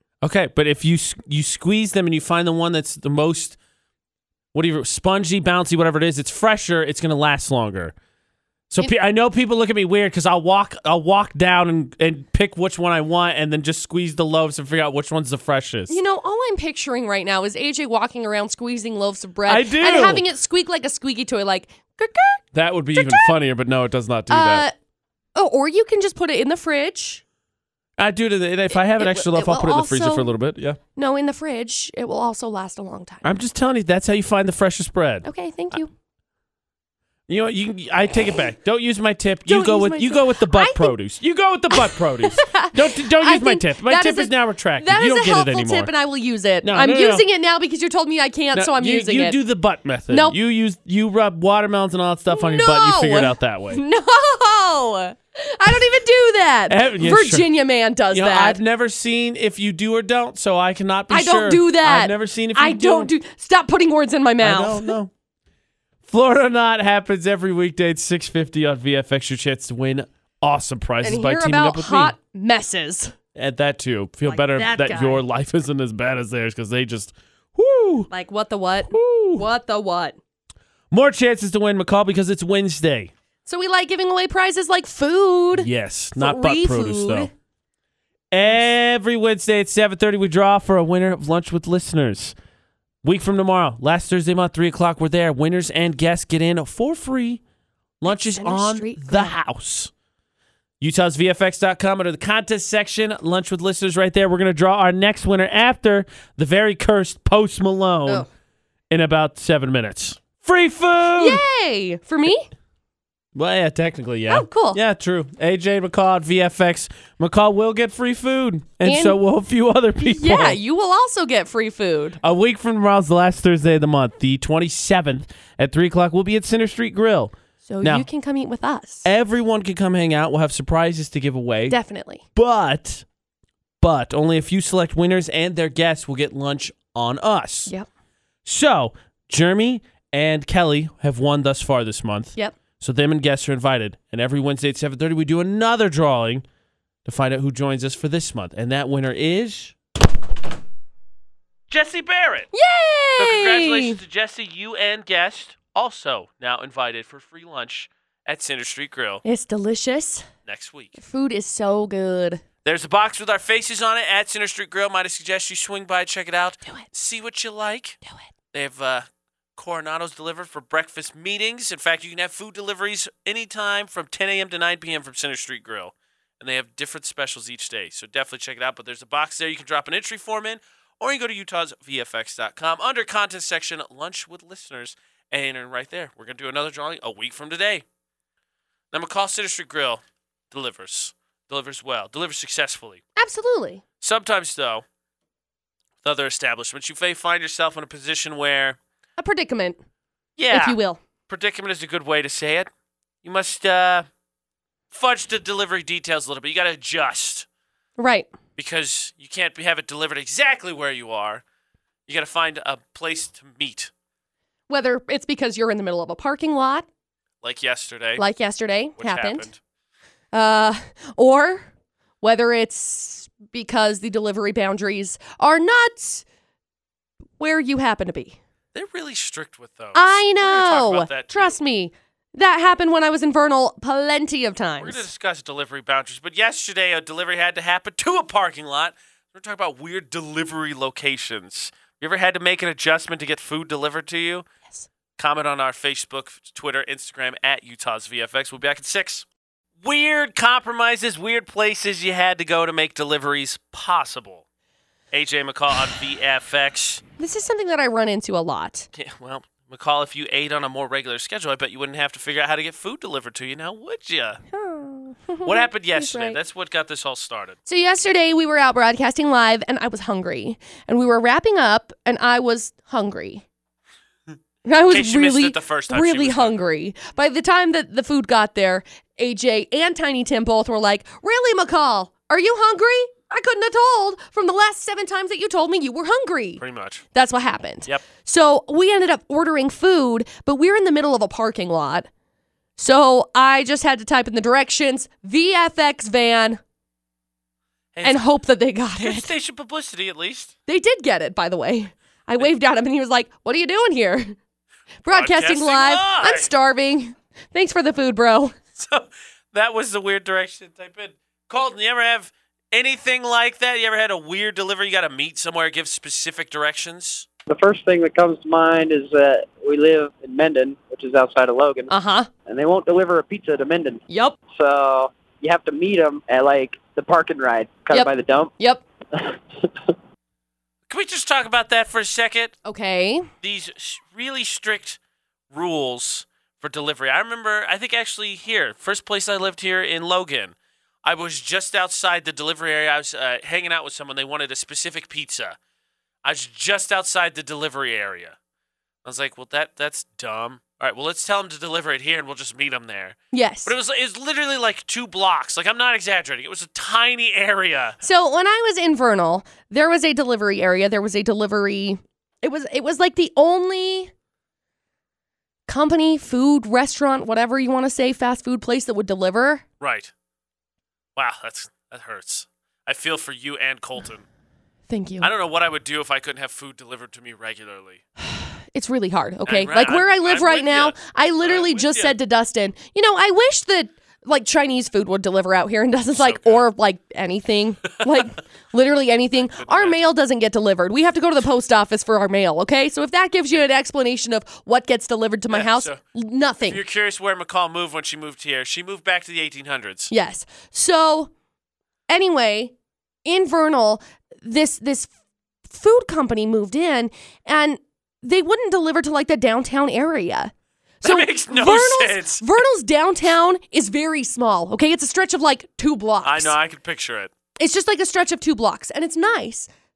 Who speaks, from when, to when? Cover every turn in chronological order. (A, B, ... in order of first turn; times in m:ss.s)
0:00.2-0:03.6 A
0:04.5-0:07.9 A
0:08.7-0:16.0 A
0:15.9-0:22.4 B
0:19.4-0:20.2 A
0:22.5-0:24.6 A
0:22.9-0:23.3 B
0:24.3-0:24.7 B
0:25.3-0:27.2 B
0:28.0-0:30.8 A
0:28.7-0:30.3 B
0:31.0-0:33.3 B
0:33.2-0:35.3 A
0:35.2-0:35.9 B
0:37.3-0:45.9 A
0:39.5-0:40.9 B
0:41.7-0:49.4 B
0:46.6-0:47.2 A
0:48.5-0:53.8 A
0:50.1-0:50.4 B
0:52.3-0:58.6 B
0:56.7-0:57.5 A
0:58.1-1:03.1 A
1:01.1-1:04.9 B
1:04.4-1:05.1 A
1:06.0-1:12.1 A
1:11.0-1:13.1 B
1:13.3-1:18.1 A
1:14.2-1:15.2 B
1:18.1-1:20.2 B
1:18.9-1:19.5 A
1:20.9-1:23.1 A
1:23.4-1:27.3 B
1:25.5-1:27.3 A
1:28.3-1:32.3 A
1:33.0-1:37.4 A
1:38.0-1:39.9 A
1:38.1-1:39.3 B
1:40.8-1:48.2 A
1:48.9-1:51.4 A
1:51.2-1:52.5 B
1:53.3-2:00.6 A
1:54.3-1:54.8 B
1:58.8-1:59.2 B
2:00.0-2:02.2 B
2:02.2-2:08.0 A
2:07.6-2:09.0 B
2:09.0-2:11.8 A
2:11.7-2:12.2 B
2:12.3-2:13.0 A
2:13.8-2:17.7 A
2:18.4-2:26.4 A
2:27.0-2:29.8 A
2:31.7-2:32.5 A
2:32.5-2:34.0 B
2:33.2-2:39.2 A
2:39.2-2:40.3 B
2:40.4-2:41.0 A
2:41.0-2:42.4 B
2:42.6-2:48.0 A
2:48.5-3:07.8 A
3:08.9-3:13.0 A
3:13.2-3:13.8 B
3:14.0-3:14.8 A
3:16.0-3:18.8 A
3:19.2-3:19.8 B
3:20.4-3:22.7 A
3:20.5-3:21.0 B
3:23.2-3:24.1 A
3:24.9-3:27.5 A
3:28.0-3:28.3 B
3:28.6-3:31.4 A
3:32.1-3:33.9 A
3:34.7-3:36.9 B
3:37.4-3:38.2 A
3:38.2-3:39.5 B
3:39.0-3:39.6 A
3:40.3-3:41.7 B
3:42.2-3:46.2 B
3:47.4-3:48.4 B
3:48.7-3:51.6 A
3:49.9-3:55.0 B
3:54.8-4:04.5 A
4:05.2-4:09.2 A
4:09.8-4:14.4 A
4:15.1-4:17.0 A
4:17.2-4:18.9 B
4:18.9-4:24.4 A
4:24.5-4:26.4 B
4:25.4-4:27.6 A
4:27.6-4:33.4 B
4:34.6-4:46.6 B
4:34.9-4:36.6 A
4:46.6-4:47.0 A
4:47.1-4:52.1 B
4:52.8-4:56.6 B
4:57.9-4:58.2 A
4:58.0-4:59.3 B
4:59.0-5:00.5 A
5:00.7-5:04.4 B
5:05.0-5:08.5 B
5:05.1-5:06.5 A
5:08.8-5:17.3 A
5:17.5-5:21.9 C
5:21.9-5:22.3 B
5:22.4-5:28.5 C
5:24.1-5:24.4 B
5:27.9-5:28.8 B
5:29.1-5:29.9 C
5:30.9-5:32.6 A
5:32.6-5:33.3 B
5:33.4-5:35.0 A
5:35.5-5:45.6 A
5:46.2-5:48.4 A
5:49.0-5:58.0 A
5:53.3-5:53.7 B
5:58.0-6:04.1 B
6:05.7-6:09.6 B
6:09.8-6:10.1 A
6:11.2-6:14.2 A
6:14.9-6:15.3 B
6:15.2-6:18.0 A
6:18.2-6:36.8 B
6:19.4-6:22.2 A
6:26.1-6:26.6 A
6:29.4-6:30.1 A
6:35.5-6:36.0 A
6:36.6-6:40.1 A
6:40.1-6:41.3 B
6:42.1-6:42.7 B
6:43.2-6:45.1 B
6:45.7-6:50.5 B
6:51.0-6:52.4 A
6:51.0-6:56.6 B
6:56.2-6:57.3 A
6:57.6-6:59.7 B